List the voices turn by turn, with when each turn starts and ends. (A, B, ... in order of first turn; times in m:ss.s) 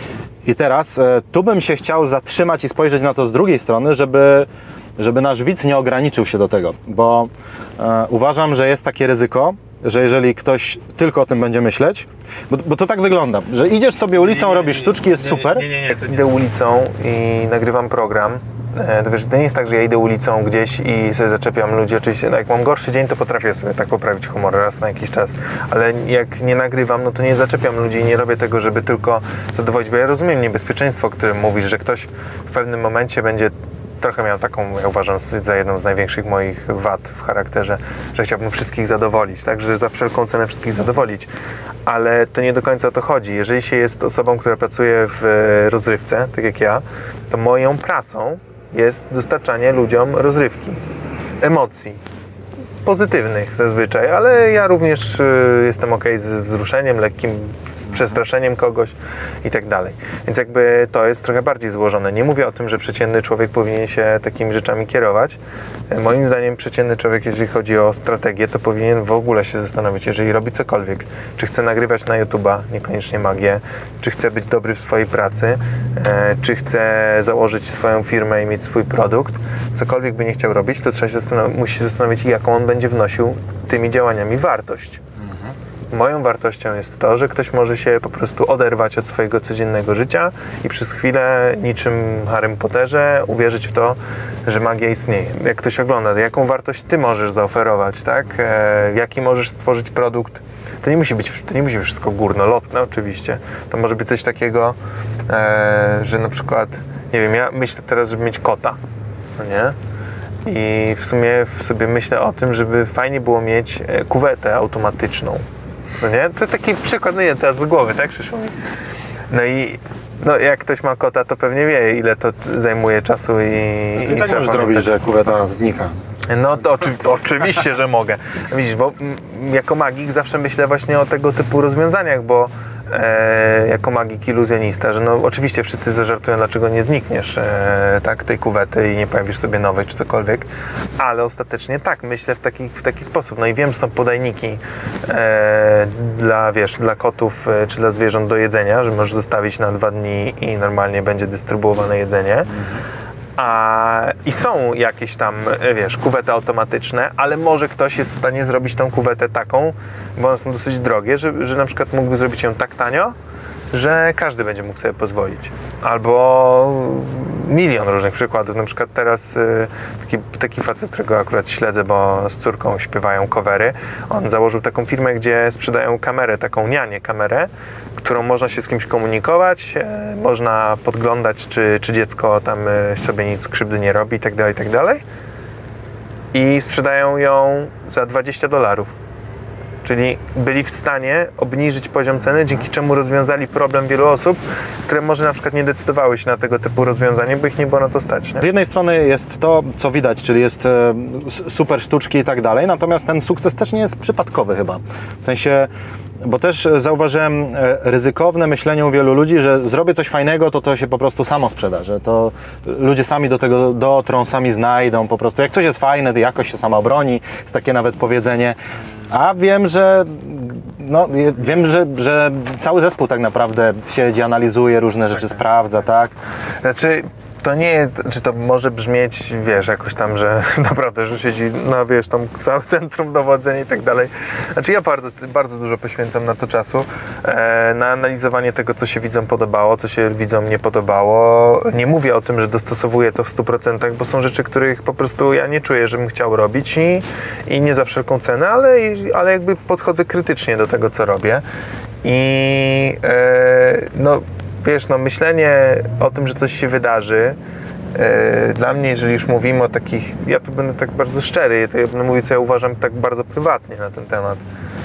0:00.4-0:15.7 A
0:14.2-0:41.3 B
0:41.8-0:50.8 B
0:51.4-0:52.0 B
0:52.8-1:05.4 B
1:05.9-1:25.0 B
1:25.2-1:25.5 A
1:25.9-1:44.8 B
1:45.3-1:48.8 B
1:49.4-1:49.7 B
1:50.4-1:55.4 B
1:56.0-1:58.5 B
1:59.3-2:05.1 B
2:04.0-2:05.9 A
2:06.3-2:32.5 B
2:32.5-2:32.8 A
2:33.4-2:43.1 B
2:43.7-3:05.0 B
3:06.3-3:08.9 B
3:09.8-3:18.4 B
3:18.4-3:25.7 A
3:26.2-3:38.6 A
3:39.1-3:46.1 A
3:46.6-4:11.4 B
4:12.0-4:17.4 B
4:17.9-4:24.4 B